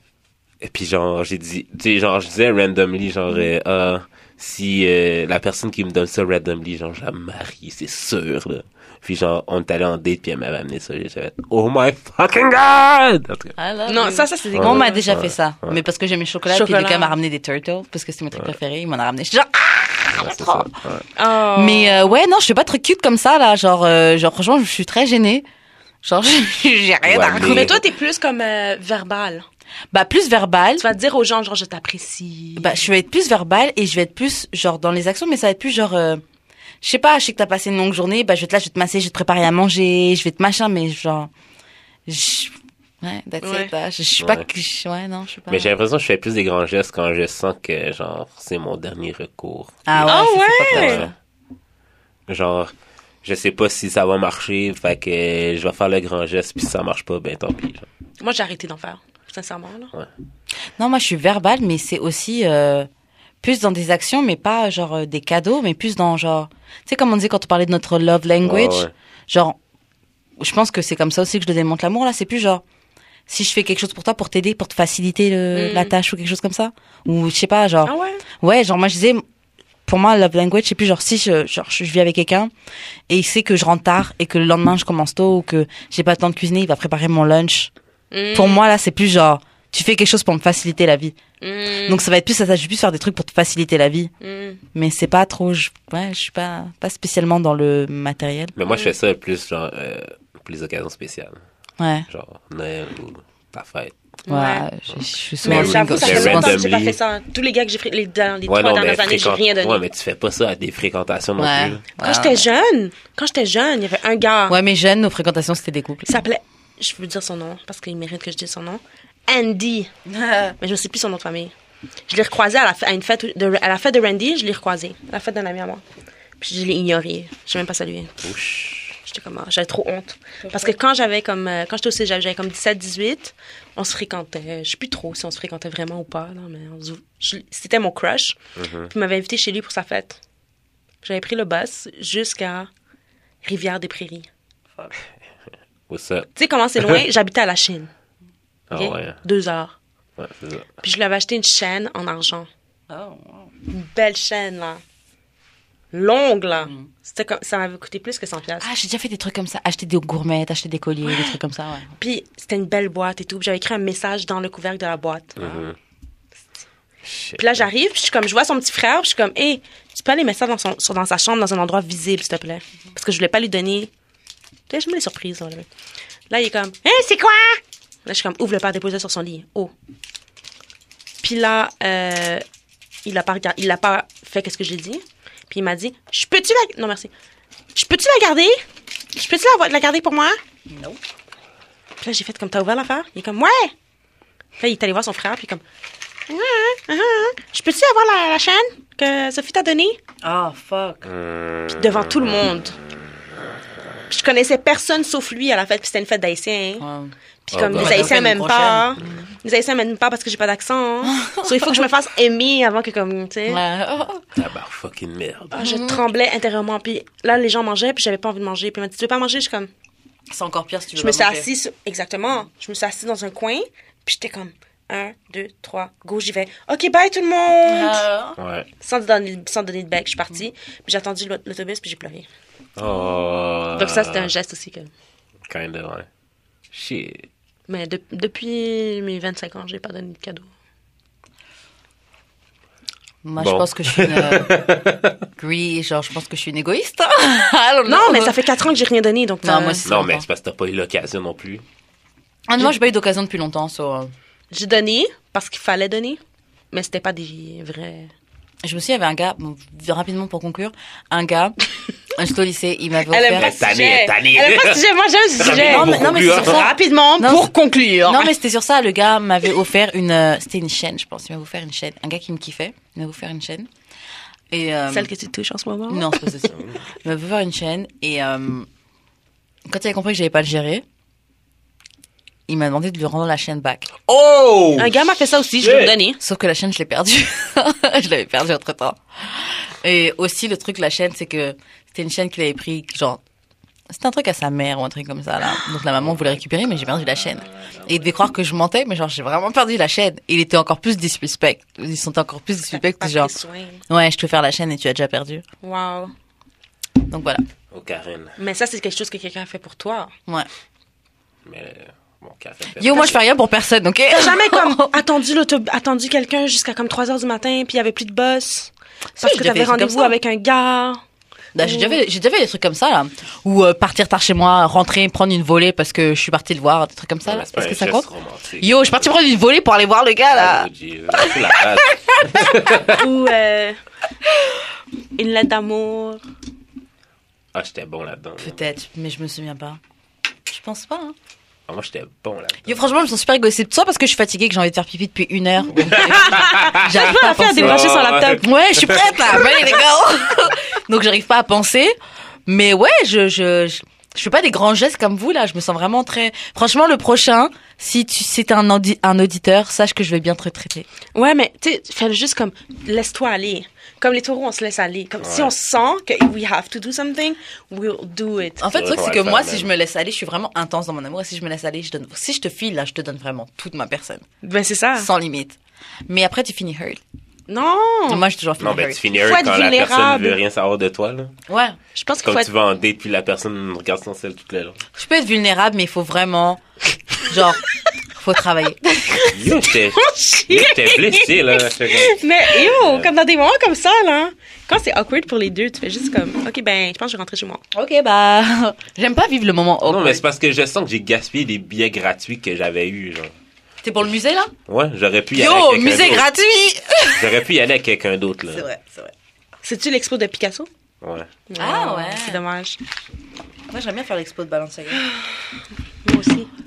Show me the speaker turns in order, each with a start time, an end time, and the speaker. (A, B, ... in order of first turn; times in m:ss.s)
0:00.6-0:13.6 A
0:13.6-0:20.7 B
0:13.9-0:15.0 C
0:14.5-0:15.8 A
0:16.5-0:17.2 C
0:20.1-0:21.0 A
0:21.2-0:22.2 C
0:21.5-0:25.4 B
0:26.0-0:27.7 B
0:27.0-0:27.8 A
0:27.4-0:29.4 C
0:29.9-0:30.8 B
0:30.8-0:32.8 C
0:32.6-0:36.2 B
0:36.8-0:41.3 B
0:42.1-0:45.7 B
0:43.4-0:43.7 C
0:44.2-0:44.4 A
0:45.5-0:51.1 A
0:49.9-0:51.1 B
0:50.1-0:51.0 C
0:52.3-0:52.7 A
0:53.2-0:57.9 A
0:58.2-0:59.9 C
1:00.8-1:02.9 B
1:03.4-1:09.6 B
1:08.4-1:08.9 A
1:10.4-1:12.6 B
1:13.3-1:19.2 B
1:15.5-1:16.0 C
1:17.9-1:18.2 C
1:19.9-1:22.5 B
1:23.1-1:27.7 B
1:28.1-1:28.6 C
1:28.3-1:31.2 B
1:31.4-1:32.0 C
1:31.7-1:34.1 B
1:34.2-1:34.6 C
1:34.7-1:38.6 B
1:38.6-1:41.4 A
1:38.7-1:39.0 C
1:41.8-1:42.1 B
1:42.1-1:44.0 A
1:44.3-1:44.7 C
1:44.3-1:46.6 B
1:45.4-1:49.8 C
1:45.4-1:47.0 A
1:48.5-1:51.8 A
1:51.4-1:52.4 B
1:52.0-1:54.6 C
1:54.5-1:56.2 B
1:56.1-1:59.9 C
2:00.1-2:00.6 B
2:00.6-2:01.5 C
2:02.1-2:05.8 C
2:06.4-2:08.2 C
2:08.2-2:09.0 A
2:09.0-2:18.4 C
2:10.4-2:10.7 B
2:18.6-2:18.9 A
2:18.9-2:20.2 C
2:21.0-2:22.7 C
2:23.4-2:24.3 C
2:25.9-2:27.0 A
2:26.4-2:27.9 C
2:28.7-2:29.2 A
2:28.7-2:29.8 C
2:30.2-2:30.8 A
2:30.8-2:32.5 C
2:32.9-2:33.5 B
2:33.7-2:34.8 C
2:35.9-2:38.7 C
2:36.6-2:36.9 B
2:38.6-2:41.9 B
2:41.0-2:41.4 C
2:42.0-2:45.6 C
2:45.4-2:45.8 A
2:47.0-2:47.7 A
2:47.4-2:53.9 C
2:54.7-2:55.7 C
2:56.3-2:59.7 C
3:01.2-3:02.4 C
3:03.0-3:07.1 C
3:07.7-3:08.6 C
3:09.1-3:10.4 C
3:10.7-3:11.0 B
3:12.0-3:13.7 C
3:14.6-3:15.6 C
3:16.3-3:20.0 C
3:20.2-3:21.1 B
3:21.0-3:22.5 A
3:21.7-3:22.8 C
3:24.1-3:26.8 C
3:26.8-3:27.1 B
3:27.5-3:33.6 C
3:27.5-3:28.2 A
3:27.7-3:29.2 B
3:31.0-3:31.9 B
3:33.5-3:34.2 B
3:34.4-3:35.6 A
3:35.5-3:39.7 C
3:35.6-3:36.1 B
3:40.3-3:41.5 B
3:41.0-3:48.0 C
3:47.7-3:48.4 B
3:48.4-3:48.7 A
3:48.8-3:52.3 C
3:52.8-3:54.3 A
3:53.7-3:54.9 C
3:55.5-3:56.1 A
3:56.7-3:57.3 A
3:57.7-4:00.5 C
4:03.2-4:04.7 B
4:03.4-4:05.2 A
4:05.4-4:08.4 B
4:07.9-4:09.9 C
4:09.4-4:10.3 B
4:09.9-4:11.6 A
4:12.5-4:14.1 B
4:14.5-4:16.2 C
4:16.7-4:18.1 C
4:18.6-4:21.6 B
4:22.1-4:23.5 B
4:23.1-4:28.3 C
4:23.3-4:24.8 A
4:25.3-4:26.7 A
4:25.4-4:27.5 B
4:28.0-4:33.7 B
4:34.5-4:35.1 B
4:34.9-4:36.3 C
4:35.9-4:38.7 B
4:36.5-4:36.8 A
4:39.7-4:40.8 B
4:42.5-4:43.9 B
4:44.1-4:45.0 A
4:44.8-4:46.2 C
4:45.6-4:46.0 A
4:46.2-4:53.2 B
4:53.9-5:03.3 B
5:02.7-5:03.8 C
5:03.9-5:05.4 B
5:05.6-5:06.1 C
5:07.1-5:07.4 B
5:07.7-5:08.4 A
5:08.4-5:10.1 C
5:11.4-5:13.2 A
5:12.8-5:15.0 B
5:14.1-5:21.0 C
5:19.2-5:20.2 B
5:21.6-5:28.1 B
5:21.6-5:22.0 C
5:27.3-5:29.1 A
5:28.6-5:32.6 B
5:30.3-5:33.1 A
5:32.9-5:33.8 C
5:35.2-5:36.2 C
5:37.5-5:38.6 A
5:38.4-5:39.8 B
5:40.5-5:41.2 B
5:41.7-5:42.9 A
5:42.7-5:52.0 B
5:45.8-5:47.0 A
5:46.1-5:48.4 C
5:47.6-5:49.2 A
5:52.5-6:00.9 B
6:01.2-6:08.6 C
6:05.2-6:05.5 A
6:08.6-6:14.2 B
6:08.7-6:09.7 A
6:14.4-6:15.1 C
6:15.0-6:15.6 B
6:16.1-6:17.0 B
6:17.5-6:18.3 C
6:18.1-6:19.0 B
6:18.6-6:21.4 A
6:19.1-6:20.4 C
6:21.5-6:21.8 B
6:22.0-6:22.5 C
6:22.2-6:24.8 A
6:25.0-6:26.6 B
6:27.2-6:27.6 B
6:28.1-6:29.3 B
6:29.3-6:33.1 A
6:29.9-6:37.6 C
6:37.7-6:40.2 B
6:39.9-6:43.3 A
6:43.8-6:44.5 B
6:44.7-6:46.3 A
6:45.3-6:47.3 B
6:47.2-6:48.7 A
6:48.5-6:49.1 B
6:49.6-6:50.7 C
6:51.0-6:51.3 A
6:51.5-6:52.8 C
6:51.6-6:52.4 B
6:53.7-6:55.0 B
6:56.0-6:56.5 C